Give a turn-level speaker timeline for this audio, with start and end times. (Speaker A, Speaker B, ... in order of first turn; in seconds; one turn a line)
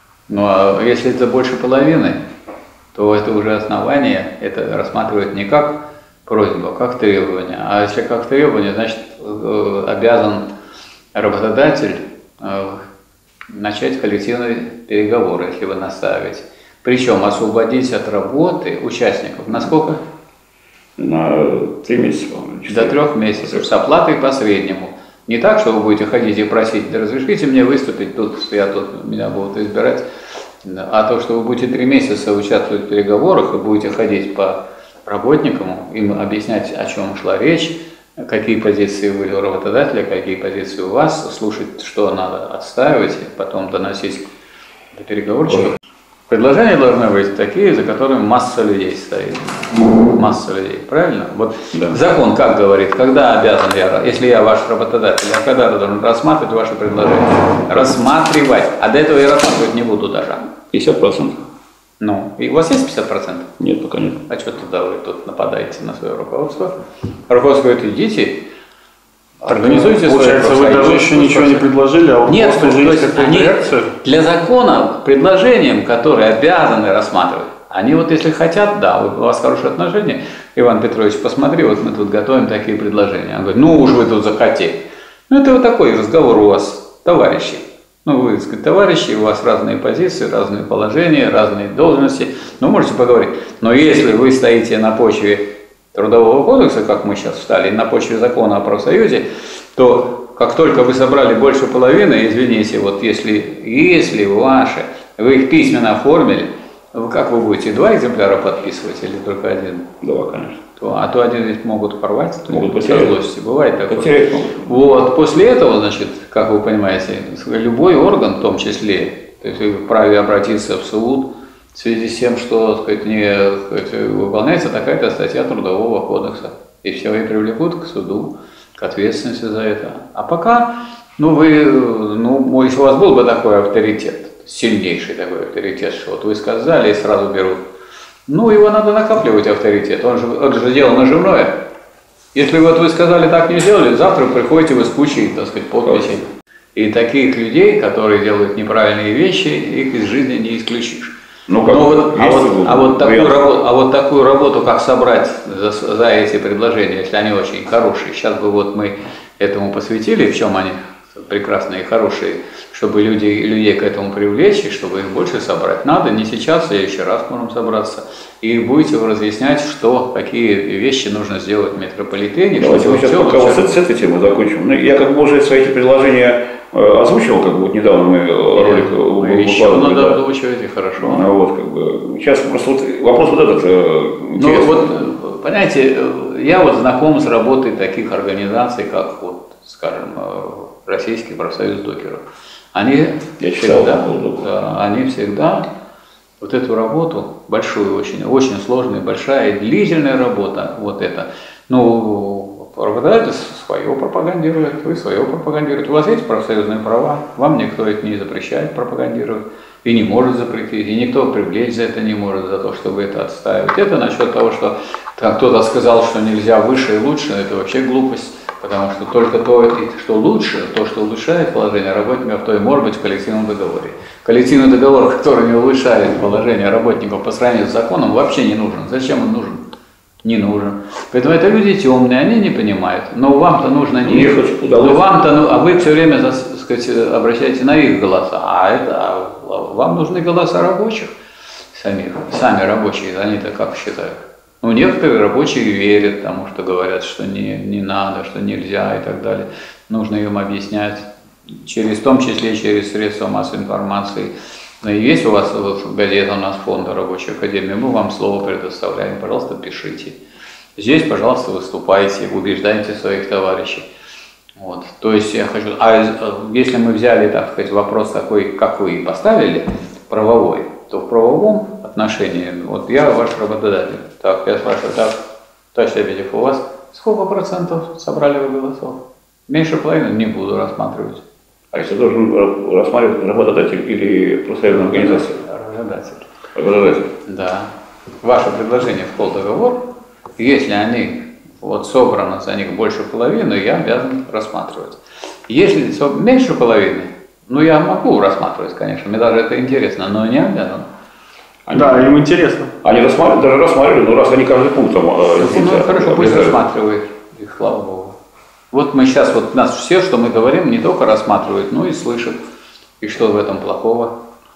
Speaker A: 0.3-2.2
Speaker A: 2.9-10.5
Speaker A: 11.1-12.8
Speaker A: 13.5-20.0
Speaker B: 21.0-23.6
Speaker A: 22.7-30.1
Speaker A: 30.6-44.3
Speaker A: 44.9-45.8
Speaker A: 46.3-60.4
Speaker B: 60.7-61.4
Speaker A: 62.0-63.5
Speaker B: 63.6-64.2
Speaker A: 64.3-66.7
Speaker A: 67.3-68.4
Speaker A: 69.4-71.6
Speaker C: 69.5-73.9
Speaker A: 72.2-109.9
Speaker B: 110.0-110.6
Speaker A: 110.7-137.6
Speaker B: 112.5-113.2
Speaker B: 113.9-114.8
Speaker A: 138.3-141.6
Speaker A: 142.3-151.1
Speaker B: 151.5-153.4
Speaker A: 151.6-173.8
Speaker B: 172.5-180.2
Speaker A: 178.5-181.3
Speaker B: 181.0-185.0
Speaker A: 184.4-195.7
Speaker B: 193.4-194.5
Speaker A: 196.4-229.6
Speaker A: 230.2-241.1
Speaker B: 234.0-235.0
Speaker A: 241.7-260.2
Speaker A: 260.8-263.9
Speaker A: 264.6-275.2
Speaker A: 275.7-281.2
Speaker B: 281.7-285.4
Speaker A: 284.7-286.3
Speaker B: 286.5-287.1
Speaker A: 287.2-287.7
Speaker A: 288.2-289.8
Speaker A: 290.4-300.9
Speaker B: 301.6-302.1
Speaker C: 301.7-302.7
Speaker B: 302.8-306.6
Speaker A: 305.4-308.2
Speaker A: 308.7-312.4
Speaker A: 313.0-314.1